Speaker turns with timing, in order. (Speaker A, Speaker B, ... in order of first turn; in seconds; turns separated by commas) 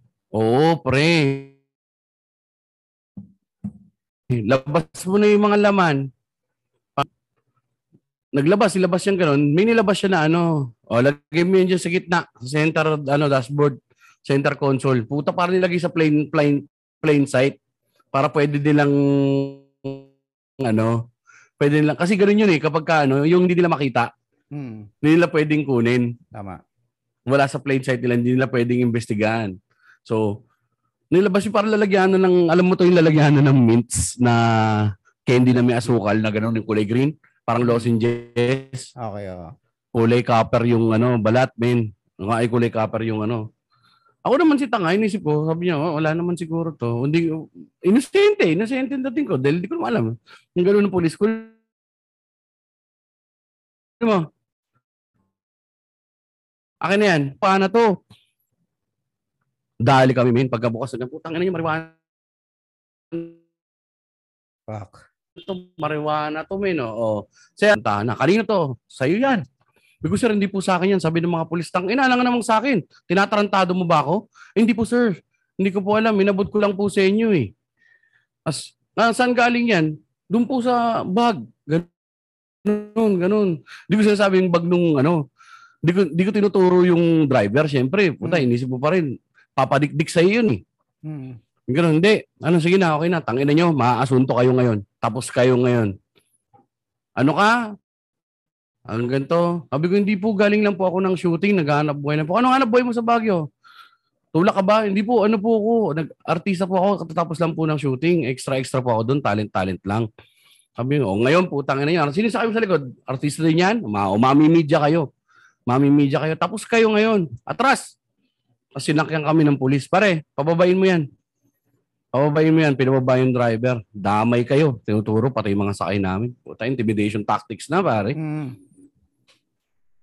Speaker A: 0.3-1.5, Speaker A: 4.3-6.0, Speaker A: 8.3-17.6, Speaker A: 18.1-20.0, Speaker A: 20.6-21.0, Speaker A: 21.6-24.1, Speaker B: 24.5-24.9, Speaker A: 25.0-26.1, Speaker B: 26.3-26.6, Speaker A: 27.3-29.5, Speaker A: 31.1-38.9, Speaker B: 39.0-39.5, Speaker A: 39.9-43.4, Speaker A: 44.2-51.5, Speaker A: 54.0-54.3, Speaker A: 56.8-57.9, Speaker A: 59.8-61.9, Speaker B: 64.7-65.0, Speaker A: 65.4-69.4, Speaker A: 70.0-77.5, Speaker A: 78.5-81.9, Speaker A: 82.6-85.2, Speaker A: 85.8-89.1, Speaker A: 89.6-90.6, Speaker B: 91.1-91.4, Speaker A: 91.7-95.9, Speaker A: 97.2-97.5, Speaker A: 98.9-103.4, Speaker A: 104.3-110.1, Speaker A: 110.8-115.1, Speaker A: 115.7-117.8, Speaker A: 118.8-121.0, Speaker A: 122.1-128.2, Speaker B: 128.2-128.6